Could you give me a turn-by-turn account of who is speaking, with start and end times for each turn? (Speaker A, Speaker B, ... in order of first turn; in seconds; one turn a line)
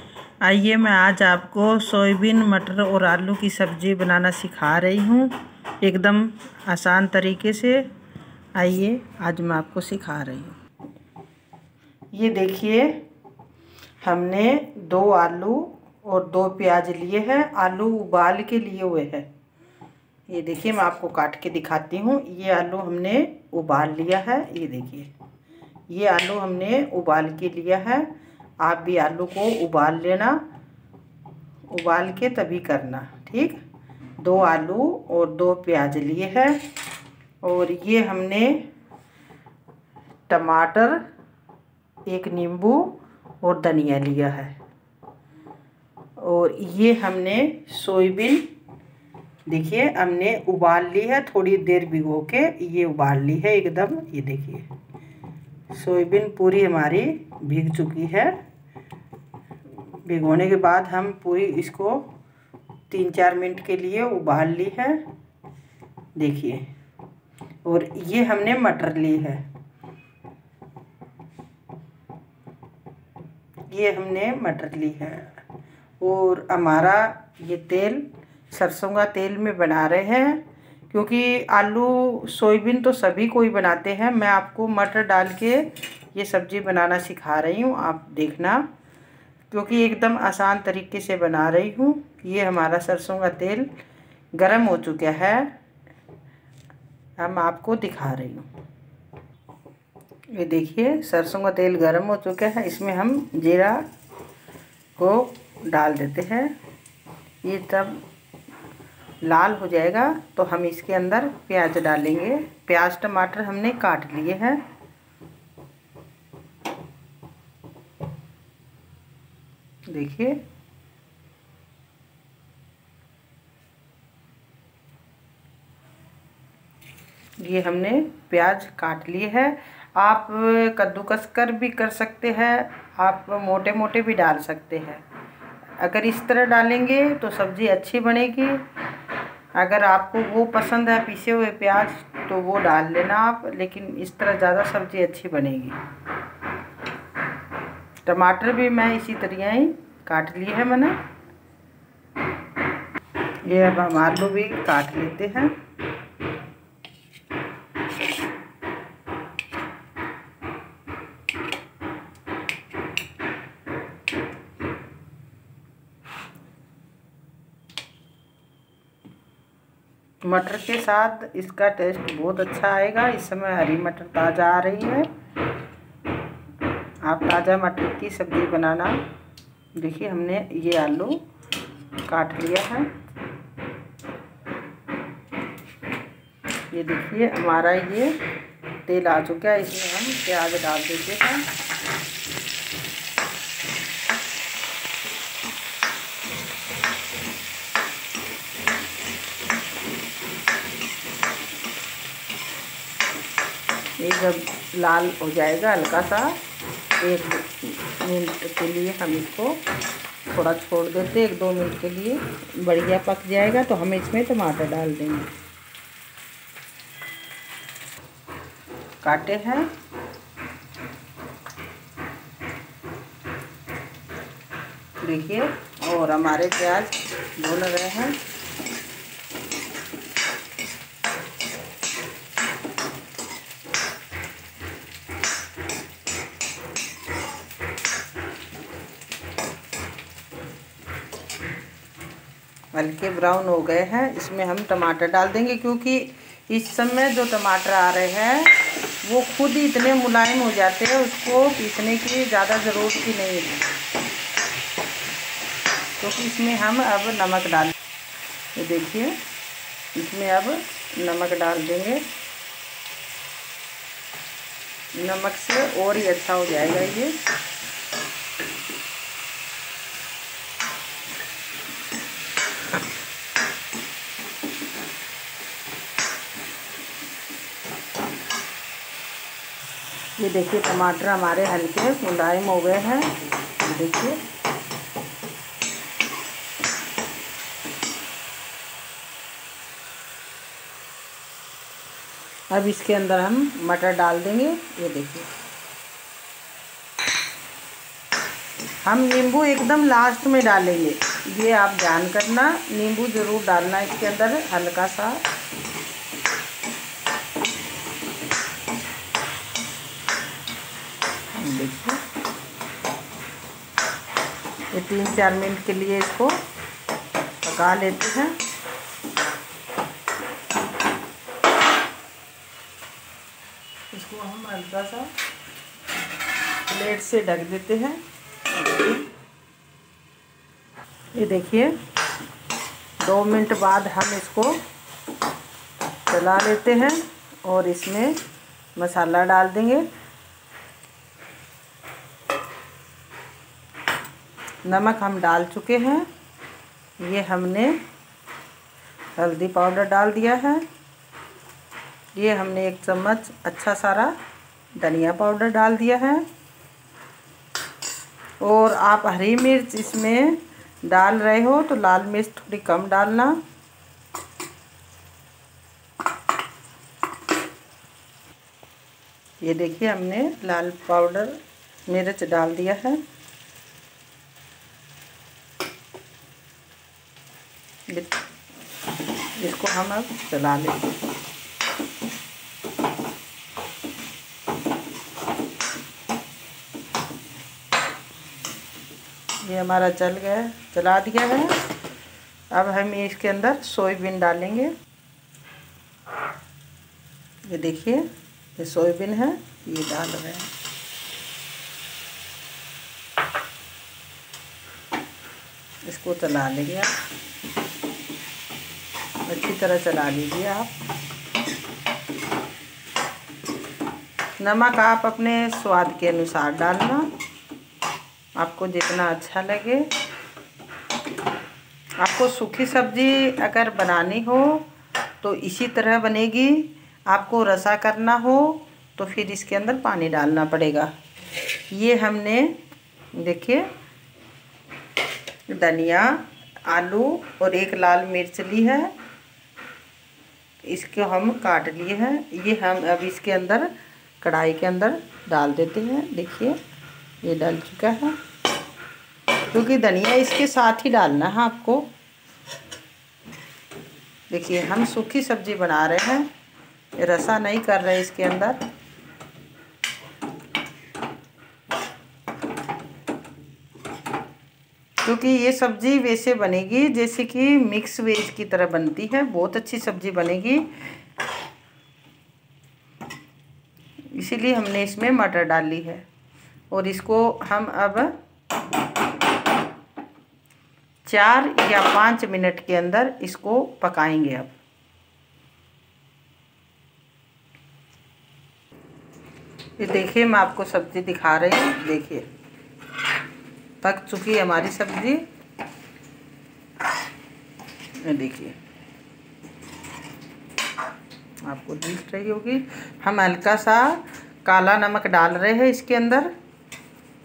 Speaker A: 0.4-7.9
Speaker A: 8.6-10.6
Speaker A: 12.1-13.0
Speaker A: 14.0-19.3
Speaker A: 20.3-25.1
Speaker A: 25.9-28.1
Speaker A: 28.6-30.4
Speaker A: 31.7-33.6
Speaker A: 34.2-36.6
Speaker A: 37.4-38.7
Speaker A: 40.3-41.0
Speaker A: 42.1-44.6
Speaker A: 46.2-48.5
Speaker A: 49.5-54.7
Speaker A: 55.7-58.4
Speaker A: 60.0-62.1
Speaker A: 62.9-65.0
Speaker A: 66.2-66.7
Speaker A: 67.7-69.5
Speaker A: 73.7-75.4
Speaker A: 76.0-88.7
Speaker A: 89.5-93.7
Speaker A: 94.3-95.5
Speaker A: 97.2-98.5
Speaker A: 100.3-103.8
Speaker A: 105.0-106.5
Speaker A: 107.4-108.0
Speaker A: 109.2-114.6
Speaker A: 119.9-120.4
Speaker A: 127.4-135.0
Speaker A: 135.8-138.7
Speaker A: 139.5-145.8
Speaker A: 148.1-151.0
Speaker A: 153.4-155.6
Speaker A: 170.2-175.1
Speaker A: 177.0-179.0
Speaker A: 179.8-181.2
Speaker A: 182.1-182.9
Speaker A: 186.7-188.2
Speaker A: 188.8-191.5
Speaker A: 204.0-206.4
Speaker A: 207.0-209.6
Speaker A: 210.3-215.3
Speaker A: 219.0-219.7
Speaker A: 225.0-228.2
Speaker A: 242.7-253.6
Speaker A: 256.0-257.7
Speaker A: 258.6-259.2
Speaker A: 259.9-262.0
Speaker A: 264.9-267.2
Speaker A: 280.2-284.2
Speaker A: 292.5-295.3
Speaker A: 298.8-305.2
Speaker A: 311.4-312.0
Speaker A: 314.7-316.4
Speaker A: 317.4-318.4
Speaker A: 323.9-325.1
Speaker A: 326.7-328.0
Speaker A: 331.1-331.8
Speaker A: 333.0-334.6
Speaker A: 336.1-338.2
Speaker A: 338.8-339.9
Speaker A: 344.6-346.1
Speaker A: 347.0-347.8
Speaker A: 349.2-350.7
Speaker A: 352.1-354.1
Speaker A: 354.8-356.3
Speaker A: 358.4-363.4
Speaker A: 369.4-373.0
Speaker A: 377.9-378.2
Speaker A: 379.4-380.9
Speaker A: 389.4-391.6
Speaker A: 392.5-394.7
Speaker A: 397.5-400.5
Speaker A: 405.9-406.9
Speaker A: 409.3-410.7
Speaker A: 414.4-417.1
Speaker A: 418.4-419.9
Speaker A: 422.0-424.6
Speaker A: 425.2-430.9
Speaker A: 431.7-432.6
Speaker A: 433.1-433.7
Speaker A: 435.5-438.9
Speaker A: 440.6-446.6
Speaker A: 447.2-448.2
Speaker A: 449.5-451.9
Speaker A: 454.3-456.3
Speaker A: 457.0-458.6
Speaker A: 465.0-470.8
Speaker A: 474.1-476.1
Speaker A: 476.7-478.1
Speaker A: 481.1-484.5
Speaker A: 489.8-492.3
Speaker A: 493.8-495.2
Speaker A: 498.0-498.6
Speaker A: 501.4-506.3